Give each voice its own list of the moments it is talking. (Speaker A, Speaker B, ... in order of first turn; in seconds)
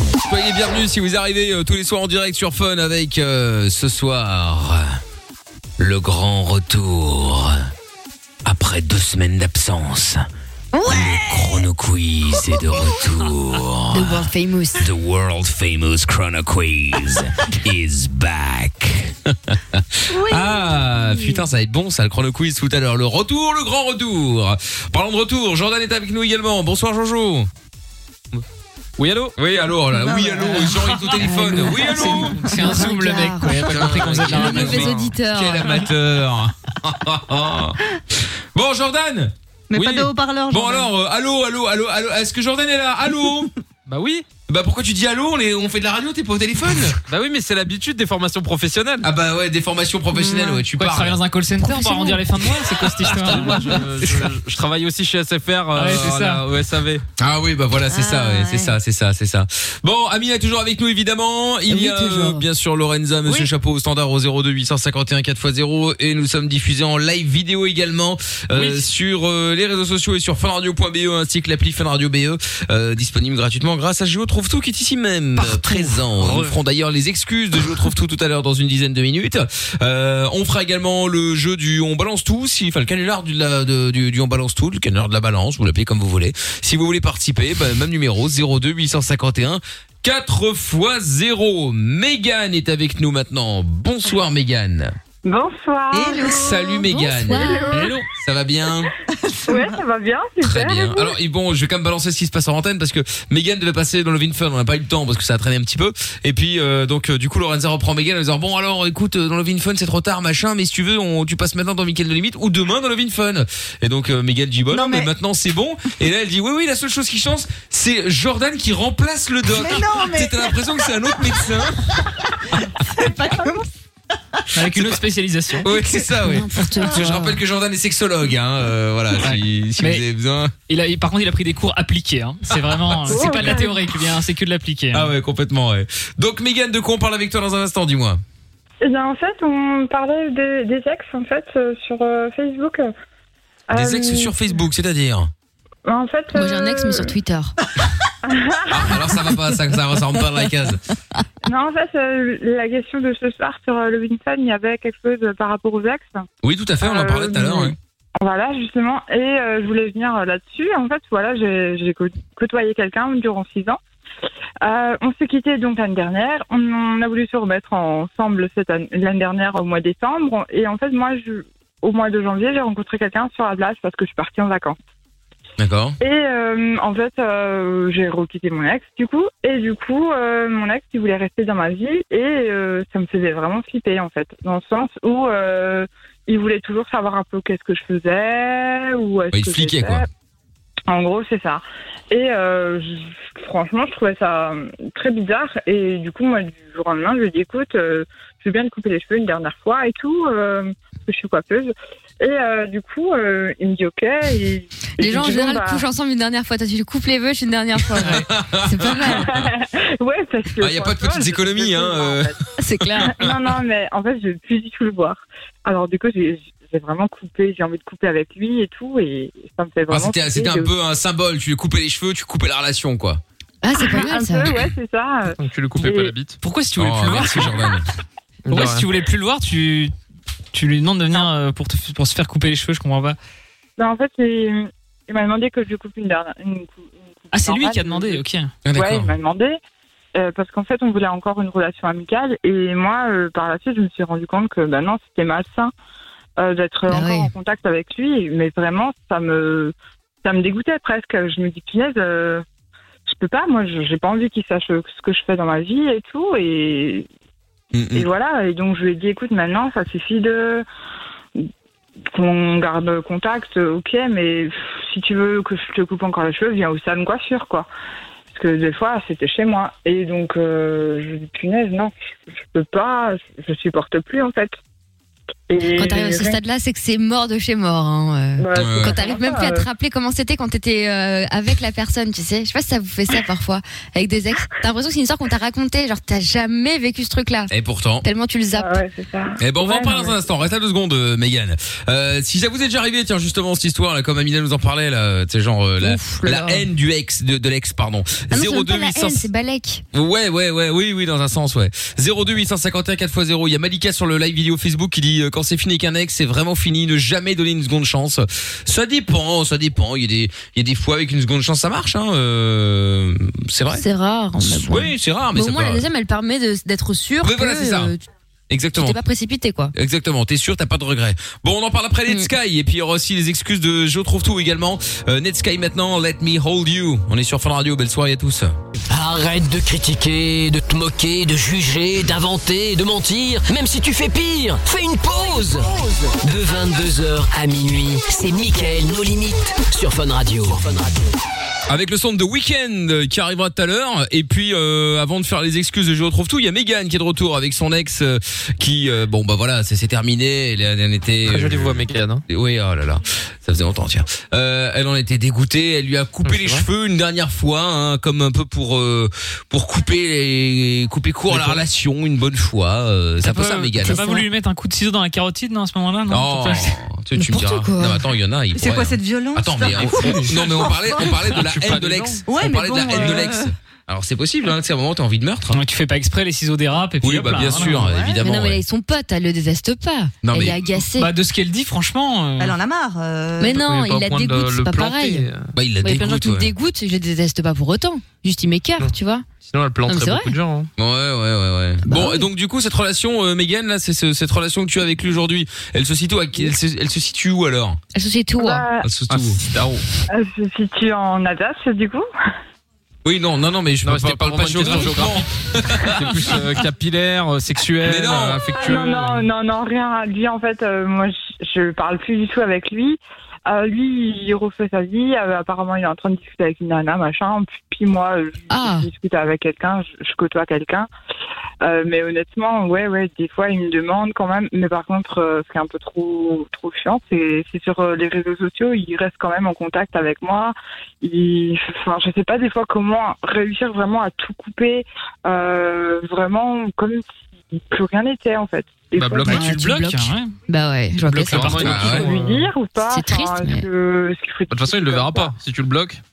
Speaker A: 0.2-4.8, 5.8-7.6, 8.4-10.2, 10.8-27.5, 29.4-32.4, 33.7-39.3, 40.5-43.5, 44.5-47.0, 49.0-51.2, 52.5-54.3, 57.2-94.9, 96.2-98.9, 100.4-122.0, 124.6-125.0, 125.6-130.5, 132.7-132.9, 134.9-138.2, 143.7-145.3, 148.7-150.8, 156.4-157.8, 175.6-176.0, 189.3-190.1, 207.9-209.5, 210.6-212.3, 212.9-213.5, 219.9-223.2, 226.8-227.8, 238.6-239.1, 257.7-258.1, 278.6-279.0, 287.5-288.1, 289.4-299.3, 299.9-313.9, 314.4-315.9, 317.2-317.9, 318.5-319.0, 319.8-328.6, 341.7-364.1, 366.1-375.6, 377.0-378.6, 380.2-380.9, 385.6-386.5, 390.8-397.8, 398.8-399.4, 403.1-406.3, 407.8-408.5, 441.6-442.1
Speaker B: 10.7-11.6, 12.5-13.1, 20.1-21.4, 29.9-31.1, 39.7-40.9, 57.9-58.7, 95.9-96.7, 99.1-99.8, 114.7-115.1, 119.5-121.5, 122.6-123.7, 368.5-371.2, 372.2-373.5, 382.4-383.6
Speaker C: 13.9-14.9, 31.1-35.9, 50.2-50.6, 51.6-52.3, 61.7-62.5, 96.9-97.9, 125.9-127.4, 133.2-133.7, 146.3-147.5, 205.0-209.3, 212.6-213.2, 223.6-224.6, 246.9-247.3, 275.8-288.8, 295.8-296.7, 298.3-299.8, 313.7-318.0, 318.8-319.7, 322.1-322.3, 363.9-364.2, 367.2-368.1, 378.0-381.1, 383.4-385.3, 385.8-389.3, 389.9-390.4, 391.8-392.3, 397.9-398.7, 418.5-418.9, 439.2-442.0, 442.8-443.7
Speaker D: 29.0-29.4, 33.9-35.1, 39.7-40.1, 43.9-44.3, 47.1-49.1, 53.3-57.0, 75.7-76.5, 225.3-226.4, 228.5-228.9, 351.2-352.2, 356.2-356.6, 361.3-361.6, 369.7-372.2, 383.5-385.5, 388.8-390.7, 399.1-399.8, 403.9-409.3, 439.0-439.5, 441.0-442.5, 444.5-446.0
Speaker E: 31.7-35.1, 50.8-53.8, 55.8-56.5, 97.7-98.1, 124.5-125.7, 129.2-130.0, 130.7-135.1, 226.4-227.7, 228.5-229.9, 230.5-233.2, 237.3-238.5, 363.2-366.8, 375.5-377.9, 380.9-382.6, 439.2-440.4, 441.0-442.1
Speaker F: 95.2-98.0, 99.5-101.1, 133.1-133.7, 138.8-142.9, 143.7-144.3, 145.8-147.1, 148.2-149.0, 151.4-156.2, 156.8-163.8, 164.6-174.8, 176.0-190.1, 190.9-205.8, 209.1-212.4, 213.0-220.7, 223.8-225.9, 233.8-238.2, 238.7-239.6, 240.1-245.7, 246.4-252.4, 253.1-257.1, 257.9-260.6, 262.1-267.7, 268.3-274.6, 275.5-276.4, 278.4-279.7, 288.5-290.2, 398.4-398.9, 400.1-402.1, 408.6-420.9, 421.6-439.4, 441.9-445.4
Speaker G: 328.9-341.0